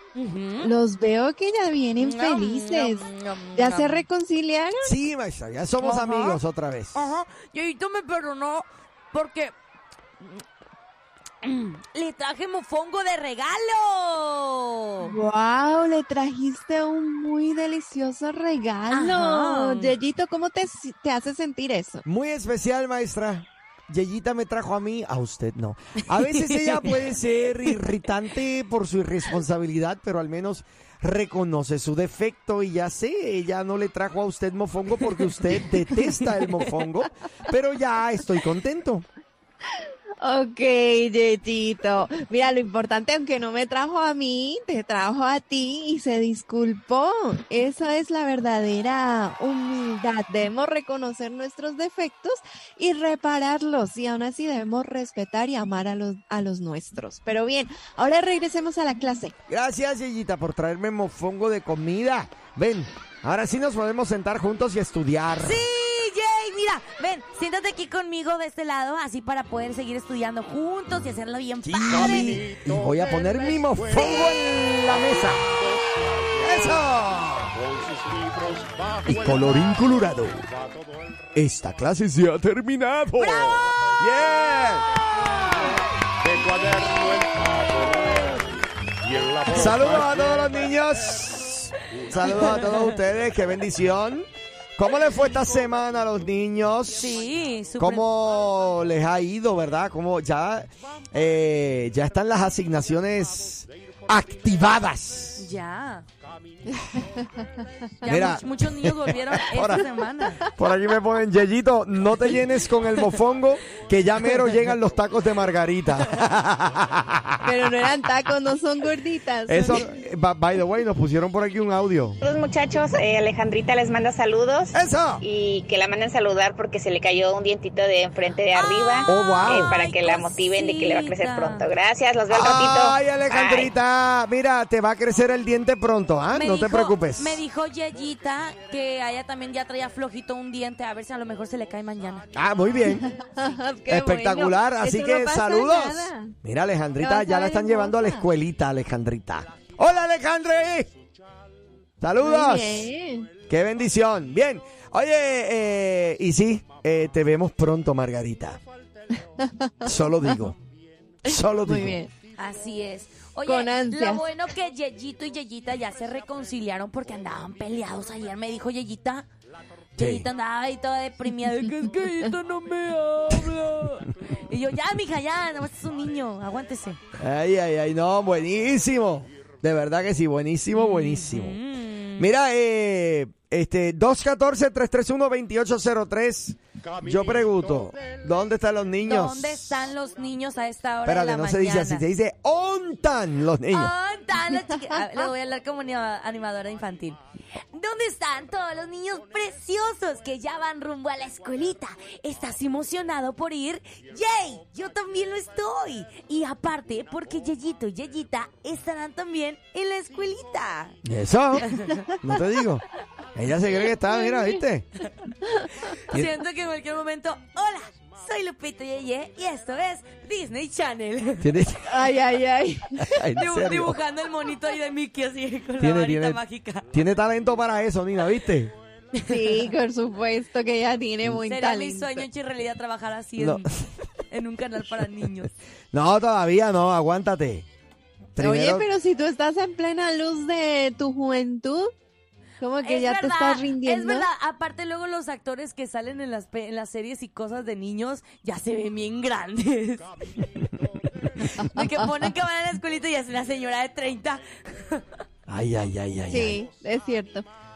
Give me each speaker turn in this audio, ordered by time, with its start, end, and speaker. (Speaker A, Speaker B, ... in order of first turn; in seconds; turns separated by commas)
Speaker A: 0.1-0.7, Speaker B: 0.6-4.9, Speaker A: 2.0-4.0, Speaker C: 4.8-7.1, Speaker A: 5.8-6.4, Speaker A: 6.9-9.5, Speaker A: 11.4-15.1, Speaker B: 15.0-22.0, Speaker A: 18.9-19.9, Speaker C: 22.0-39.0, Speaker A: 26.3-27.0, Speaker A: 35.3-36.7, Speaker B: 40.2-59.3, Speaker C: 59.5-65.6, Speaker A: 65.4-72.4, Speaker C: 71.6-75.4, Speaker D: 71.9-76.8, Speaker A: 73.9-74.2, Speaker C: 76.4-77.6, Speaker D: 77.5-79.9, Speaker C: 79.0-80.5, Speaker D: 80.5-81.1, Speaker C: 81.3-84.8, Speaker D: 83.3-84.5, Speaker A: 85.2-85.8, Speaker D: 86.2-91.3, Speaker C: 89.5-97.2, Speaker D: 91.9-93.0, Speaker A: 96.9-98.1, Speaker C: 97.8-105.5, Speaker A: 105.4-106.1, Speaker D: 106.8-107.3, Speaker A: 108.0-110.4, Speaker C: 108.0-109.9, Speaker C: 110.5-117.5, Speaker B: 117.4-119.9, Speaker C: 119.5-122.2, Speaker E: 122.2-133.7, Speaker C: 124.7-125.2, Speaker A: 128.5-131.7, Speaker C: 129.1-129.7, Speaker C: 132.3-137.4, Speaker A: 136.3-142.3, Speaker C: 142.3-143.0, Speaker B: 142.8-146.3, Speaker C: 143.9-150.9, Speaker B: 147.0-148.2, Speaker C: 152.0-152.9, Speaker B: 152.2-153.3, Speaker C: 153.5-158.6, Speaker B: 159.4-160.5, Speaker C: 159.8-160.6, Speaker C: 161.2-162.0, Speaker B: 161.3-162.1, Speaker A: 162.4-169.3, Speaker B: 163.4-164.3, Speaker A: 169.9-177.0, Speaker C: 170.0-170.3, Speaker C: 177.2-181.6, Speaker A: 180.7-182.3, Speaker C: 182.2-189.9, Speaker D: 186.8-188.2, Speaker A: 189.0-192.1, Speaker C: 191.0-193.9, Speaker A: 193.7-197.2, Speaker A: 197.7-211.0, Speaker C: 211.0-211.7, Speaker A: 211.6-212.0, Speaker C: 212.2-212.8, Speaker C: 213.3-214.9, Speaker B: 214.1-214.6, Speaker A: 215.8-221.5, Speaker C: 216.1-216.3, Speaker C: 221.4-222.1, Speaker B: 221.9-223.1, Speaker C: 223.0-224.0, Speaker A: 223.3-226.9, Speaker C: 225.8-228.7, Speaker A: 229.1-229.6, Speaker B: 229.3-232.3, Speaker A: 231.4-233.7, Speaker C: 233.4-233.9, Speaker A: 234.3-235.5, Speaker C: 235.9-237.7, Speaker C: 238.3-238.9, Speaker B: 238.4-241.9, Speaker B: 242.6-244.3, Speaker A: 242.8-250.2, Speaker A: 251.3-255.0, Speaker B: 251.6-251.8, Speaker C: 255.5-256.6, Speaker B: 256.3-257.4